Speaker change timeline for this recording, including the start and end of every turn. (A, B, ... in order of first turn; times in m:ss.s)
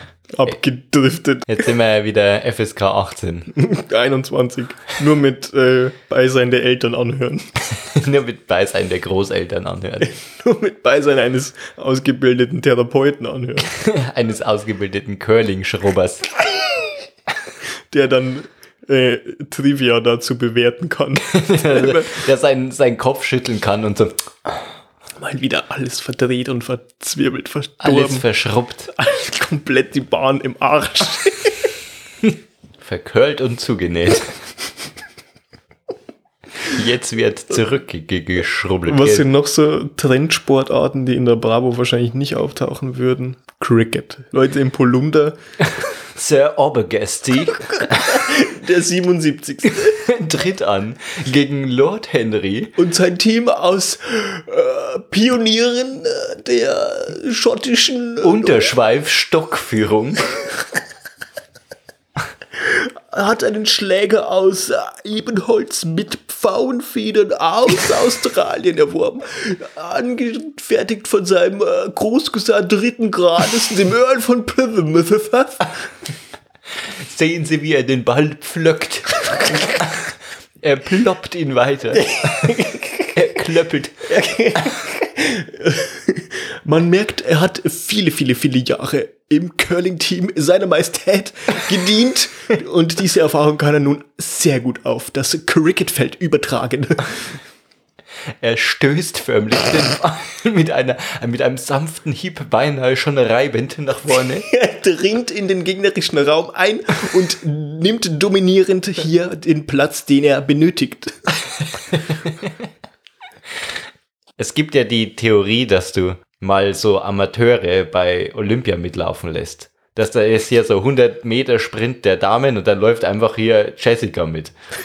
0:00.3-0:01.7 A
0:01.5-0:03.5 B
0:03.5-0:07.5 A
0:07.7-0:10.1 B
0:10.0-0:13.7 A
0:13.6-0:16.3 B
0:17.9-0:22.3 A
0:21.3-0:24.6 B
0:25.2-0:28.2 A
0:27.8-0:28.9 B
0:28.9-0:31.7 A
0:32.8-0:34.4 B
0:36.6-0:39.2 B
0:38.9-0:45.4 A
0:45.7-0:48.3 B
0:47.7-0:50.0 A
0:49.7-0:52.8 B
0:52.8-0:58.7 A
0:58.2-1:00.4 B
1:02.6-1:15.9 A
1:16.8-1:24.1 B
1:21.9-1:23.2 A
1:24.1-1:37.3 A
1:38.4-1:44.4 B
1:44.4-1:51.3 A
1:54.4-2:04.5 B